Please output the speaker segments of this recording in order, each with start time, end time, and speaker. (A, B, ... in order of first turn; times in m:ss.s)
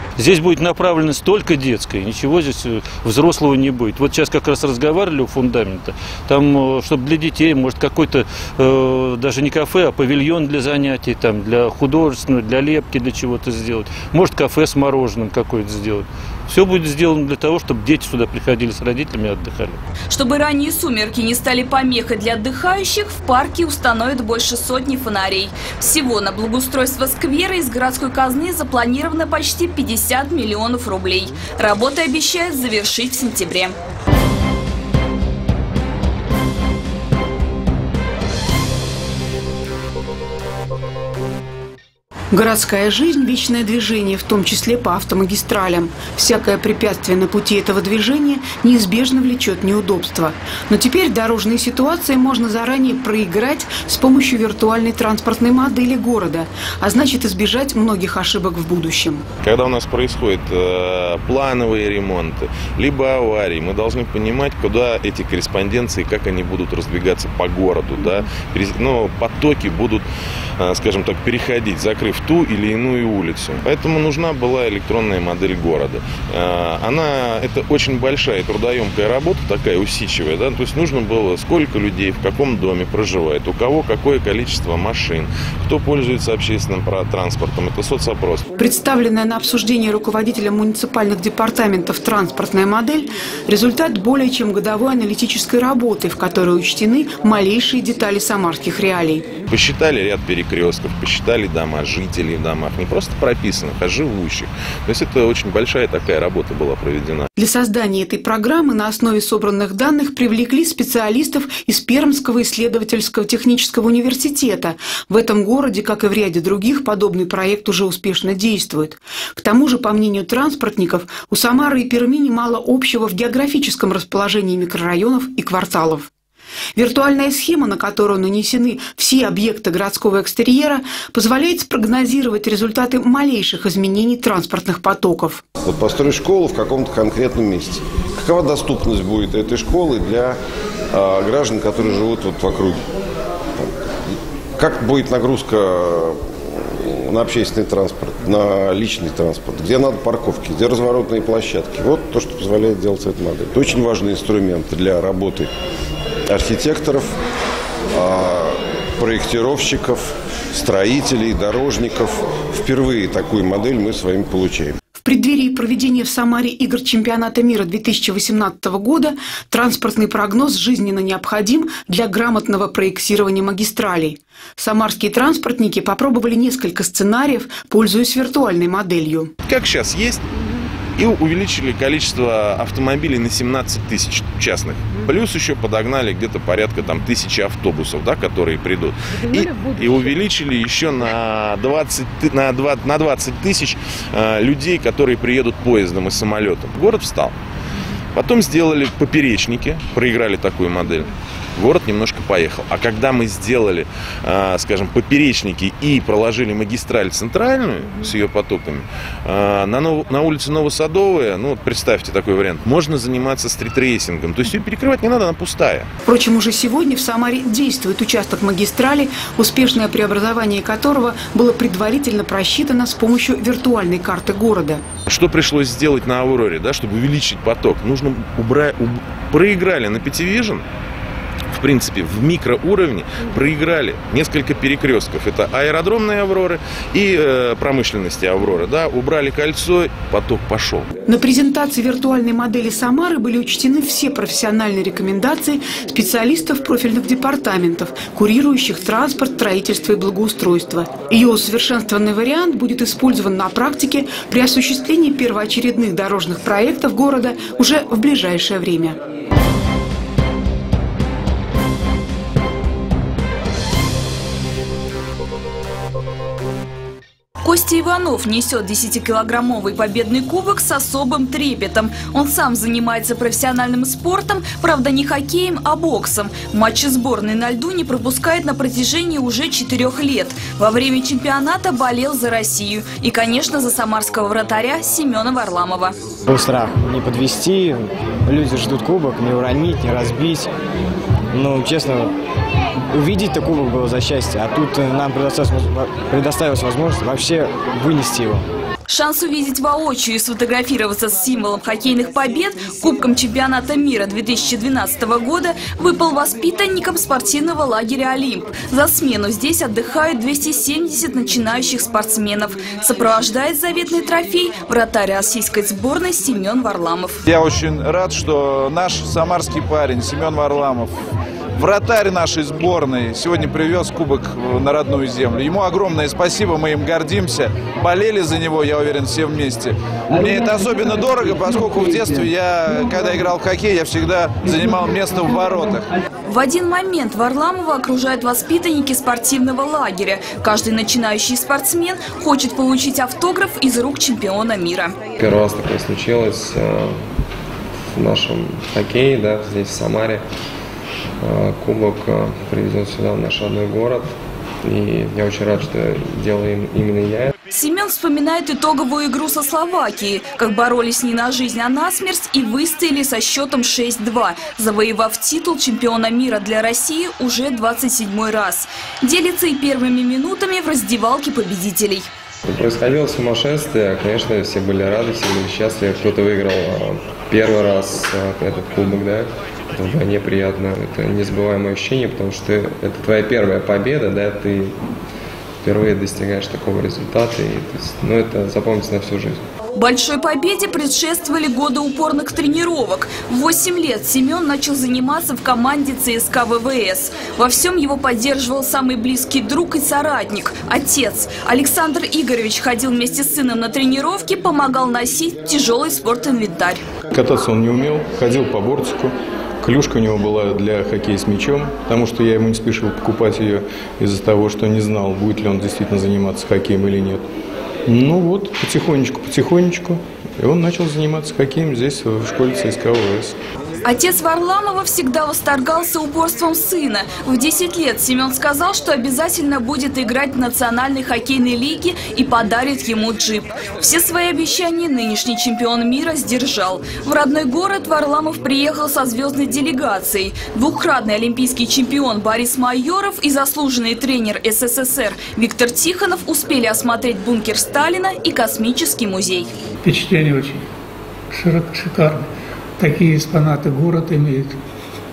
0:00.2-0:19.8 A
0:20.1-0:33.8 B
0:42.3-0:59.2 C
0:59.4-1:10.1 D
1:10.6-1:28.4 D
1:28.6-1:39.2 C
1:39.5-1:47.3 D
1:47.4-2:06.1 C
2:06.8-2:15.4 C
2:15.6-2:20.4 E
2:20.9-2:22.8 E
2:24.6-2:35.5 E
2:36.3-2:37.2 E
2:37.9-2:44.8 E
2:45.0-2:59.3 C
2:59.4-3:00.3 D
3:01.0-3:17.4 D
3:18.2-3:35.9 D
3:36.1-3:44.8 C
3:45.1-3:50.6 D
3:51.5-4:00.9 D
4:01.1-4:19.0 C
4:27.4-4:46.0 B
4:46.3-4:50.5 F
4:51.3-4:52.2 F
4:52.9-4:58.4 F
4:58.9-5:17.2 B
5:17.3-5:20.9 G
5:21.6-5:35.9 G
5:36.3-5:44.9 B
5:45.2-5:47.0 H
5:47.9-5:50.2 H
5:51.2-5:54.1 H
5:54.6-5:57.3 H
5:57.5-6:12.1 B
6:12.5-6:24.8 H
6:25.6-6:29.4 H
6:29.8-6:46.8 B
6:47.2-6:57.2 I
6:57.9-7:03.3 I
7:03.8-7:29.5 B
7:29.8-7:30.6 J
7:31.3-7:34.6 J